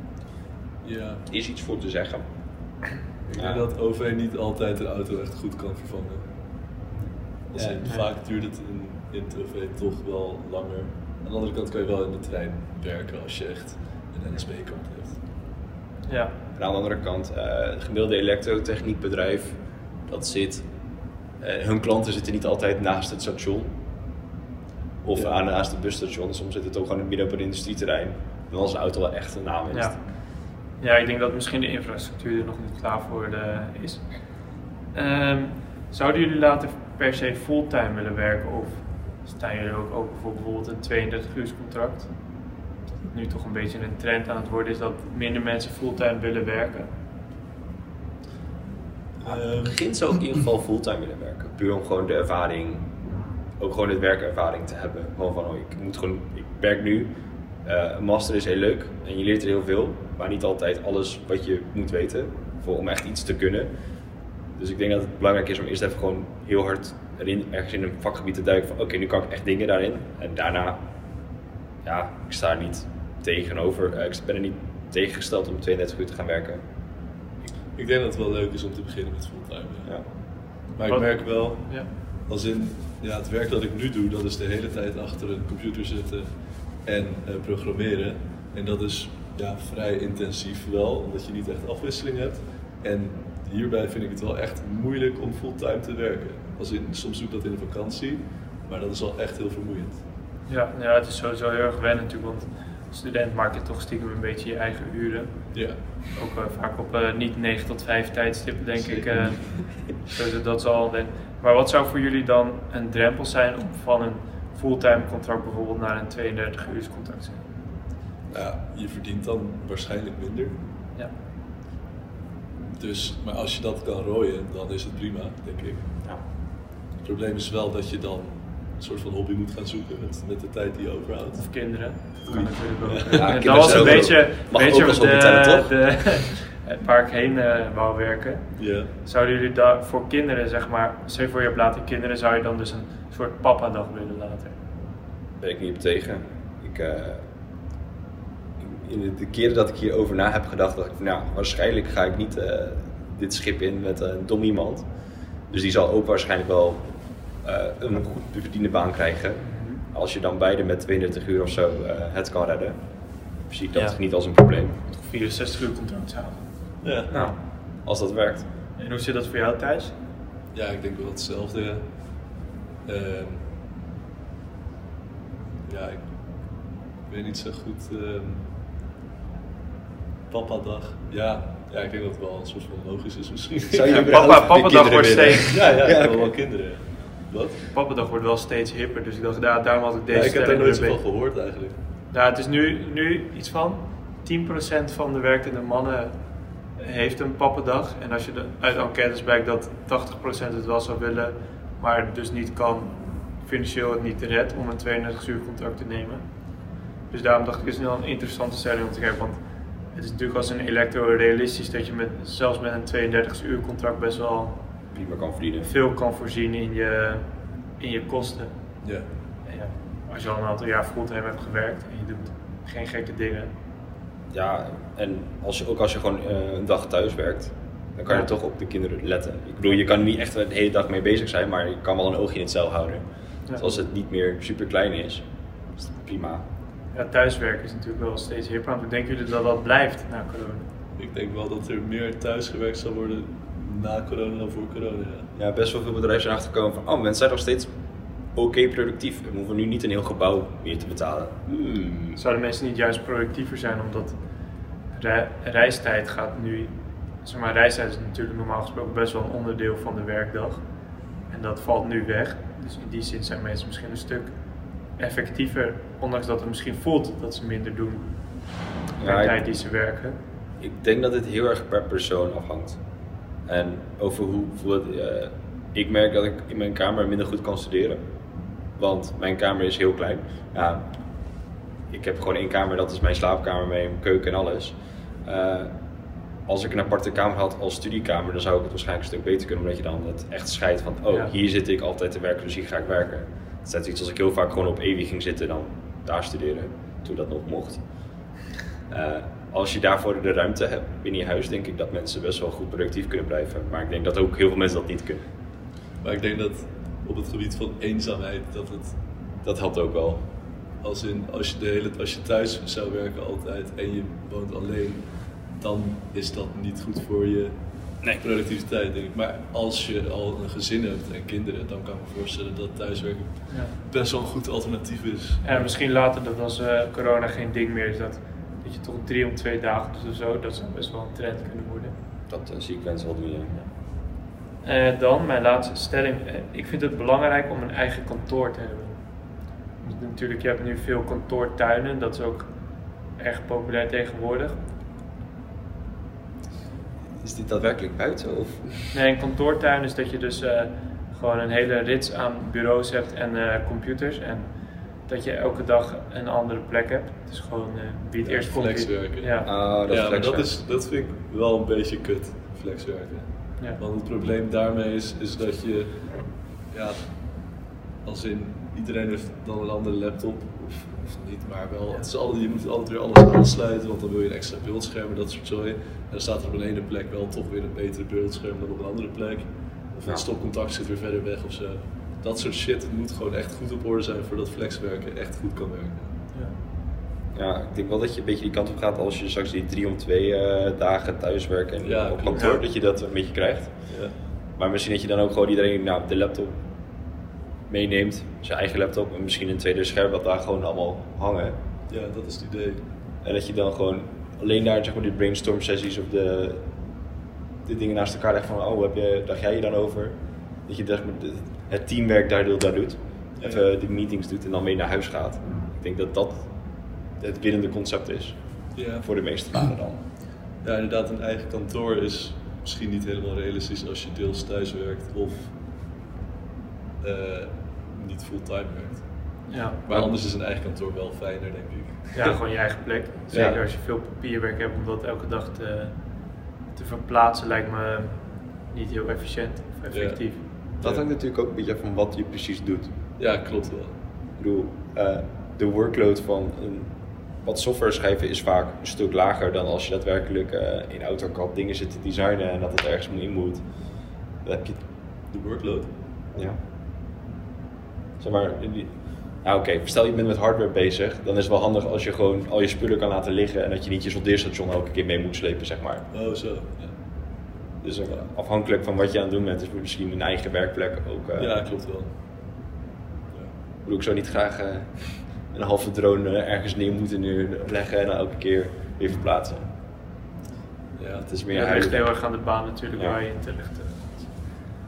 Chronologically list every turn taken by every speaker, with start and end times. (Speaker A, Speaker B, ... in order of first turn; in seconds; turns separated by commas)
Speaker A: 0.8-1.2, Speaker B: 1.3-2.2, Speaker A: 3.3-6.2, Speaker B: 3.3-3.7, Speaker A: 7.5-15.2, Speaker B: 7.5-7.8, Speaker C: 16.1-16.3, Speaker B: 16.6-20.6, Speaker B: 21.4-23.7, Speaker B: 25.0-30.0, Speaker C: 29.7-29.9, Speaker C: 30.8-34.0, Speaker C: 34.9-42.1, Speaker C: 43.0-46.9, Speaker A: 49.2-49.8, Speaker B: 49.2-52.9, Speaker B: 53.6-57.1, Speaker B: 57.6-63.7, Speaker B: 64.5-70.8, Speaker B: 71.8-76.6, Speaker A: 77.8-79.9, Speaker A: 80.8-86.3, Speaker C: 80.8-81.9, Speaker A: 86.8-100.0, Speaker C: 100.5-105.3, Speaker C: 106.1-117.4, Speaker A: 108.8-109.4, Speaker A: 118.3-120.6, Speaker A: 122.8-125.8, Speaker A: 127.0-131.5, Speaker C: 131.4-144.6, Speaker A: 132.2-134.1, Speaker B: 133.1-135.7, Speaker A: 138.6-138.9, Speaker B: 145.4-147.2, Speaker B: 148.6-154.8, Speaker B: 155.5-156.9, Speaker B: 157.4-162.8, Speaker C: 159.4-159.8, Speaker B: 163.5-164.8, Speaker C: 164.9-166.4, Speaker A: 166.8-167.1, Speaker C: 167.1-167.3, Speaker B: 167.1-168.4, Speaker C: 168.8-169.9, Speaker A: 170.5-171.8, Speaker A: 172.8-173.4, Speaker A: 175.7-176.0, Speaker A: 177.1-178.4, Speaker A: 180.3-184.3, Speaker B: 183.6-186.3, Speaker C: 183.9-185.7, Speaker A: 185.4-187.6, Speaker C: 187.7-191.0, Speaker A: 190.1-191.8, Speaker C: 192.1-196.1, Speaker C: 196.8-206.2, Speaker C: 207.1-209.4, Speaker C: 209.9-214.6, Speaker B: 214.9-215.7, Speaker C: 215.6-217.2, Speaker C: 217.8-218.5, Speaker C: 219.4-223.5, Speaker B: 224.3-233.0, Speaker C: 233.5-233.7, Speaker B: 233.6-235.2, Speaker B: 236.0-236.4, Speaker C: 236.9-240.7, Speaker A: 241.0-245.3, Speaker B: 245.3-247.7, Speaker B: 248.3-252.2, Speaker C: 252.2-254.1, Speaker C: 254.9-256.7, Speaker C: 257.2-260.6, Speaker C: 261.3-264.3, Speaker C: 265.0-268.1, Speaker B: 269.0-269.4, Speaker C: 269.0-270.2, Speaker B: 270.6-272.8, Speaker B: 273.5-278.0, Speaker B: 278.8-280.8, Speaker B: 281.9-284.7, Speaker B: 285.2-285.7, Speaker B: 286.5-297.8, Speaker B: 298.9-305.2, Speaker A: 306.0-308.9, Speaker B: 309.4-310.2, Speaker A: 310.8-315.0, Speaker A: 315.6-317.5, Speaker A: 318.2-325.7, Speaker C: 325.4-331.9, Speaker B: 332.3-333.6, Speaker C: 334.6-339.0, Speaker C: 339.8-342.5, Speaker C: 343.2-344.6, Speaker B: 347.2-348.9, Speaker C: 348.9-354.5, Speaker C: 355.1-359.5, Speaker A: 358.2-363.3, Speaker B: 359.4-360.5, Speaker A: 363.8-365.9, Speaker A: 366.7-367.0, Speaker A: 368.0-386.1, Speaker B: 387.3-393.7, Speaker A: 391.8-392.6, Speaker C: 392.3-392.6, Speaker A: 393.9-394.1, Speaker B: 394.6-396.5, Speaker B: 397.7-401.6, Speaker A: 401.9-402.8, Speaker B: 403.2-406.6, Speaker B: 407.6-416.5, Speaker B: 417.2-418.4, Speaker A: 418.7-419.0, Speaker B: 419.0-420.0, Speaker A: 420.6-425.5, Speaker A: 427.0-429.0, Speaker C: 429.5-429.8, Speaker A: 429.9-432.4, Speaker C: 432.1-435.9, Speaker B: 433.3-433.6, Speaker C: 436.7-438.2, Speaker C: 438.7-440.4, Speaker A: 439.9-440.2, Speaker B: 440.8-442.9, Speaker A: 443.2-443.9, Speaker B: 444.4-446.9, Speaker B: 447.4-453.6, Speaker B: 454.4-454.8, Speaker A: 455.3-455.9, Speaker B: 458.2-458.9, Speaker B: 459.4-466.0, Speaker A: 466.1-466.9, Speaker B: 467.8-471.5, Speaker A: 471.4-472.1, Speaker B: 473.8-479.7, Speaker A: 480.9-481.3, Speaker B: 481.2-482.1, Speaker C: 481.5-484.1